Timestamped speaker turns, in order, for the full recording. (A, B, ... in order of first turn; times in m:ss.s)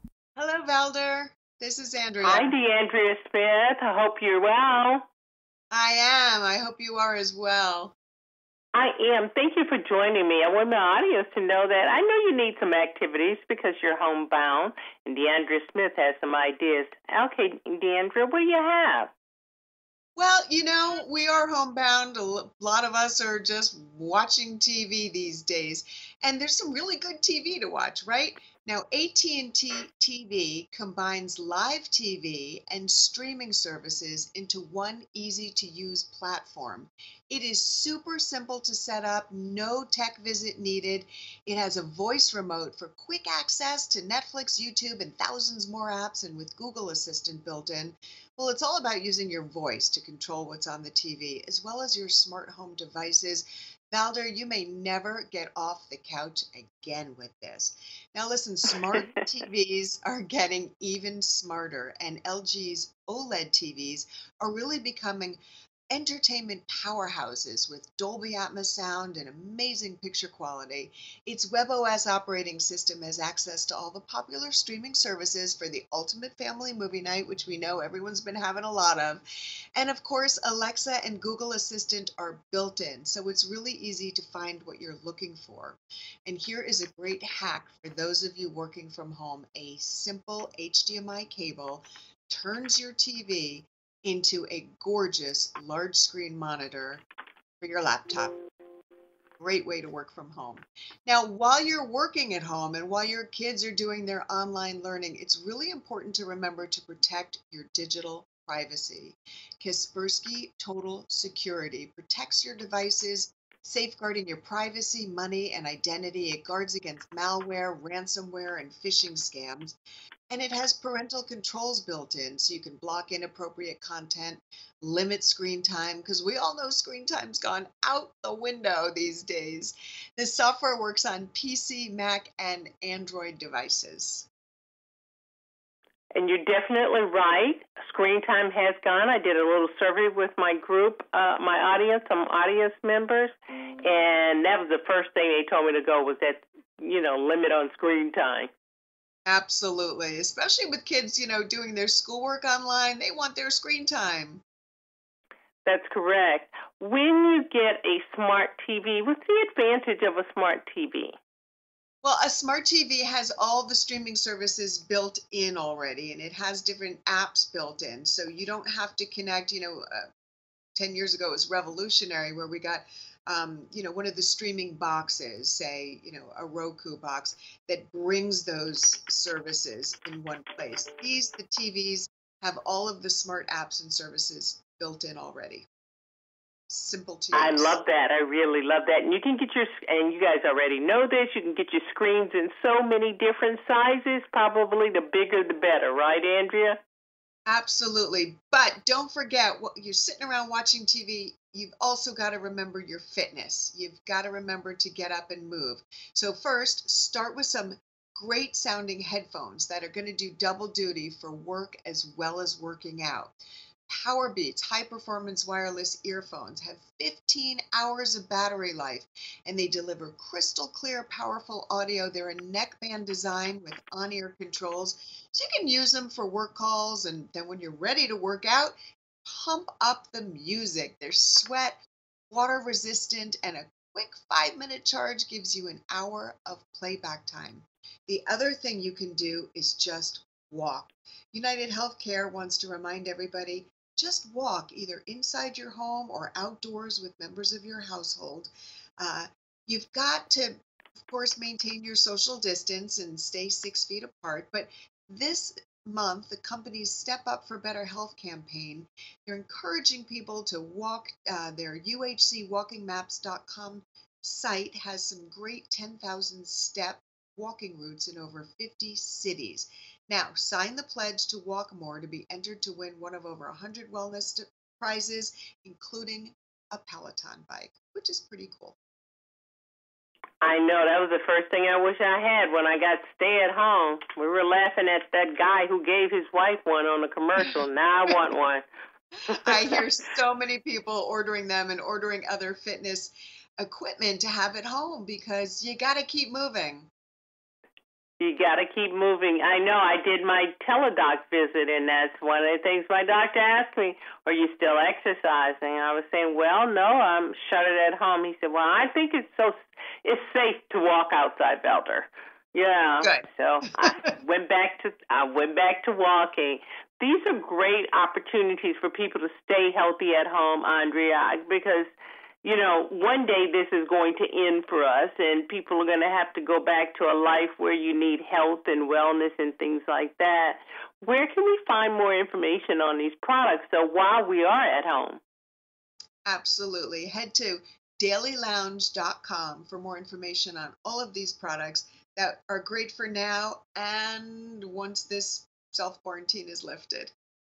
0:00.4-0:02.5 A
0:02.2-0:05.0 B
0:05.7-0:07.9 A
0:08.7-0:19.1 B
0:20.2-1:05.4 A
1:05.9-1:19.2 A
1:19.8-1:37.0 A
1:37.6-1:38.3 A
1:39.4-1:59.8 A
2:00.3-2:14.3 A
2:16.1-2:28.5 B
2:29.2-2:34.4 A
2:35.6-2:41.1 B
2:42.0-2:50.1 A
2:50.7-3:05.6 A
3:06.7-3:07.8 A
3:07.3-3:16.8 B
3:17.5-3:33.3 A
3:33.9-3:51.8 A
3:52.3-4:38.8 A
4:40.4-4:48.6 B
4:49.3-4:56.9 A
4:49.3-4:49.8 B
4:58.2-5:21.9 B
5:22.4-5:35.2 B
5:36.2-5:47.1 A